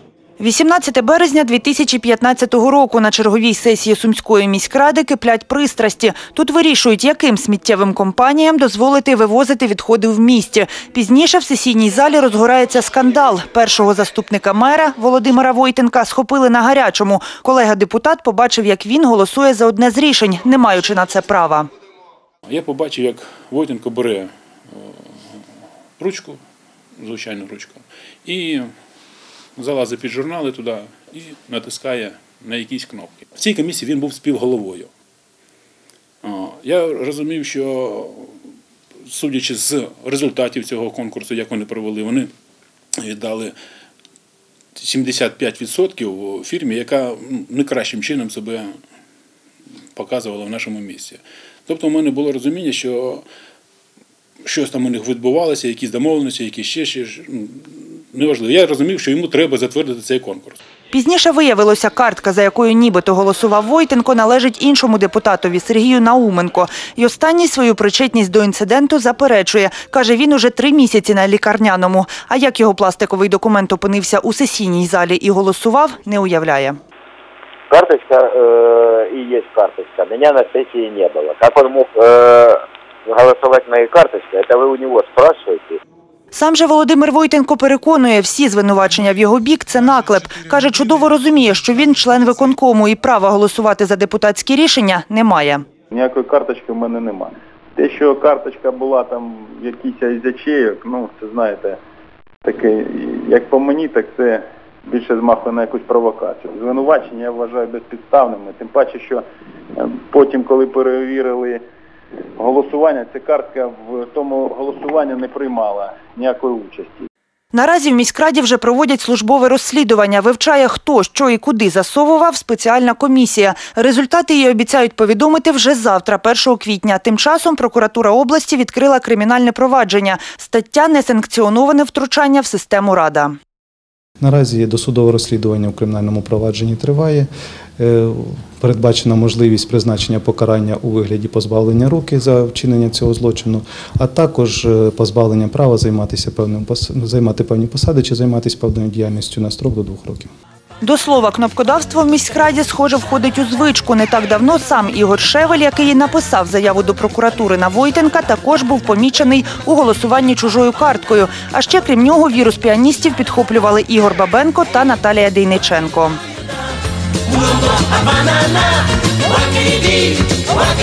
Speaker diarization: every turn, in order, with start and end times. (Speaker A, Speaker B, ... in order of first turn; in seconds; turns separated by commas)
Speaker A: 0.4-21.7, Speaker B: 22.5-25.4, Speaker B: 26.0-26.4, Speaker B: 27.0-28.7, Speaker B: 29.6-34.9, Speaker B: 36.2-38.3, Speaker B: 39.0-42.3, Speaker B: 43.0-43.5, Speaker B: 44.8-48.7, Speaker B: 49.9-53.2, Speaker B: 54.4-60.6, Speaker A: 60.9-76.8, Speaker C: 77.7-85.8, Speaker A: 86.3-95.6, Speaker D: 95.9-101.8, Speaker D: 102.4-109.2, Speaker D: 109.8-111.6, Speaker D: 112.4-117.1, Speaker A: 117.5-133.3, Speaker E: 134.2-150.3, Speaker A: 150.8-166.2